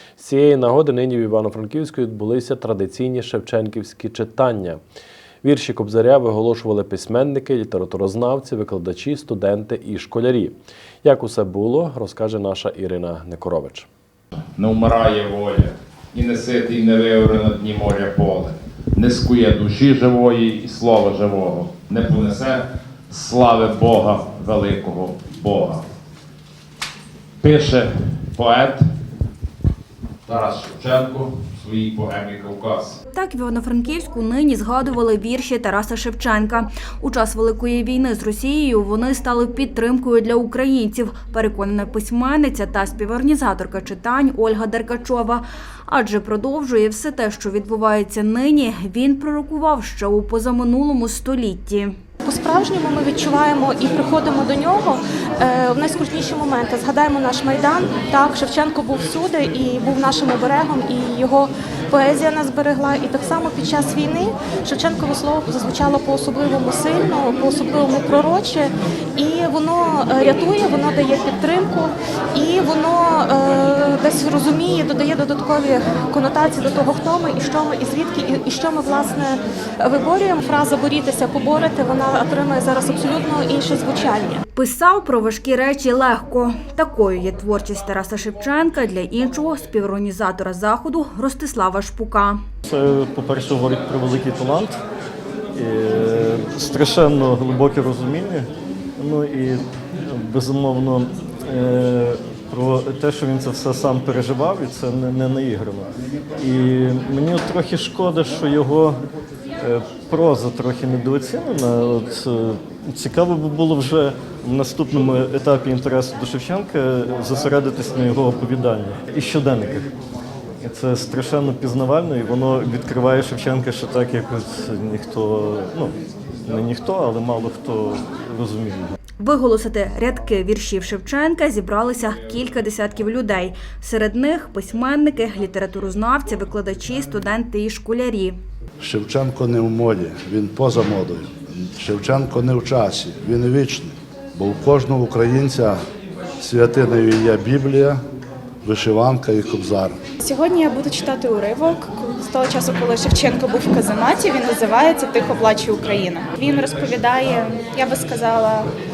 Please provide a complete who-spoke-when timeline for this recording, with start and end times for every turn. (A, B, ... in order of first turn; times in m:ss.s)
0:00.2-0:04.8 A
0:05.4-0:13.9 A
0:14.6-0:25.8 B
0:27.4-0:28.8 B
0:30.3-0:33.0 B
0:33.1-0:52.0 C
0:52.2-1:24.4 D
1:24.5-1:32.4 C
1:32.7-1:34.8 E
1:35.5-1:49.0 E
1:49.6-1:59.9 E
2:00.6-2:09.0 E
2:09.2-2:18.4 C
2:18.8-2:25.8 F
2:26.4-2:28.0 F
2:28.6-2:30.0 F
2:30.2-2:38.7 G